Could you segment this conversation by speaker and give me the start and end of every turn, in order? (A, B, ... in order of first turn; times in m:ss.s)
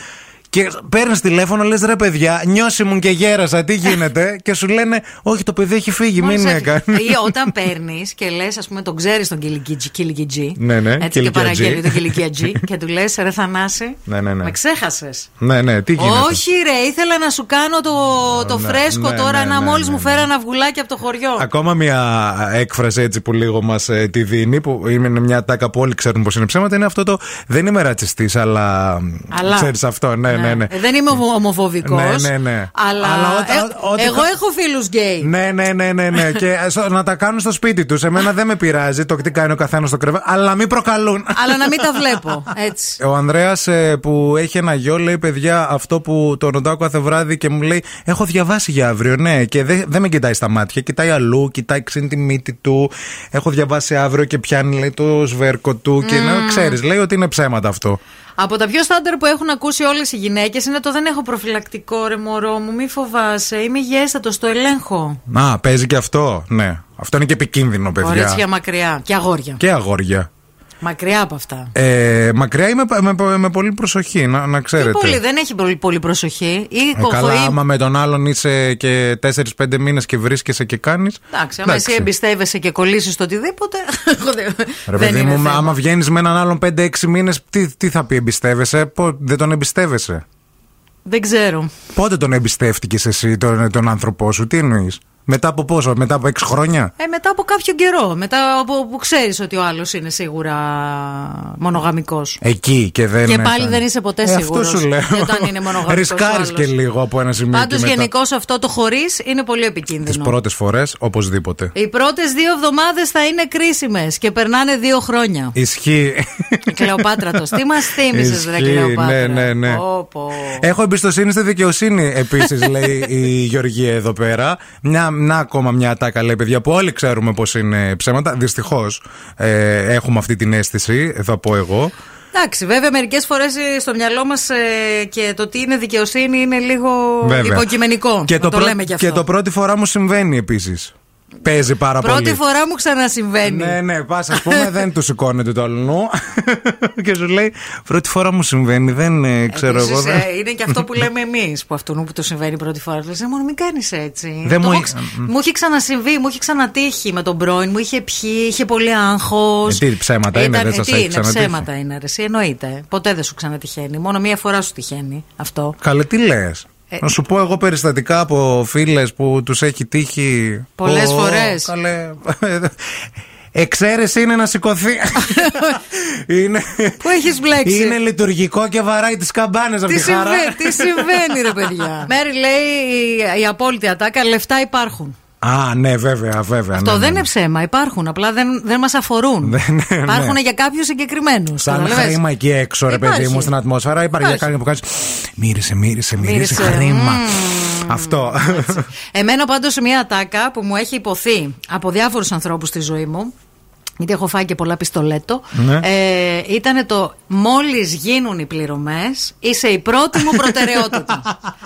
0:00.5-0:07.5 A
0:06.2-0:15.3 B
0:10.6-0:12.6 A
0:14.1-0:14.5 A
0:15.4-0:16.4 A
0:16.0-0:21.4 B
0:18.3-0:20.3 A
0:21.4-0:30.7 A
0:29.3-0:29.7 B
0:30.3-0:35.3 B
0:31.8-0:34.3 A
0:35.2-0:42.2 A
0:36.1-0:36.4 B
0:41.3-0:43.0 B
0:43.0-0:58.0 A
0:56.0-0:56.8 B
0:58.4-1:05.2 B
1:05.3-1:08.4 A
1:08.0-1:09.6 B
1:09.6-1:10.3 A
1:10.8-1:11.7 B
1:11.7-1:15.2 A
1:14.8-1:17.6 B
1:16.9-1:22.1 A
1:21.3-1:25.8 B
1:24.9-1:30.2 A
1:31.0-1:31.7 B
1:31.9-1:36.9 A
1:37.0-1:42.4 B
1:42.4-1:48.1 A
1:43.2-1:46.7 B
1:47.5-1:50.3 B
1:50.0-1:51.7 A
1:51.7-1:55.6 B
1:55.5-1:59.8 A
1:56.7-2:00.7 B
2:00.6-2:11.9 A
2:02.3-2:03.1 B
2:12.3-2:19.2 B
2:17.2-2:17.7 A
2:18.2-2:22.4 A
2:21.9-2:23.8 B
2:23.4-2:30.2 A
2:24.3-2:24.7 B
2:29.5-2:45.8 B
2:34.4-2:35.3 A
2:39.6-2:41.7 A
2:45.8-2:52.9 A
2:50.8-2:51.7 B
2:53.5-3:01.9 A
2:55.2-2:55.8 B
2:57.0-2:58.0 B
2:59.9-3:05.2 B
3:05.4-3:07.3 A
3:06.7-3:12.2 B
3:09.4-3:10.4 A
3:11.6-3:18.9 A
3:12.9-3:13.5 B
3:14.2-3:14.5 B
3:16.2-3:23.3 B
3:24.0-3:31.3 B
3:25.5-3:25.8 A
3:30.4-3:30.9 A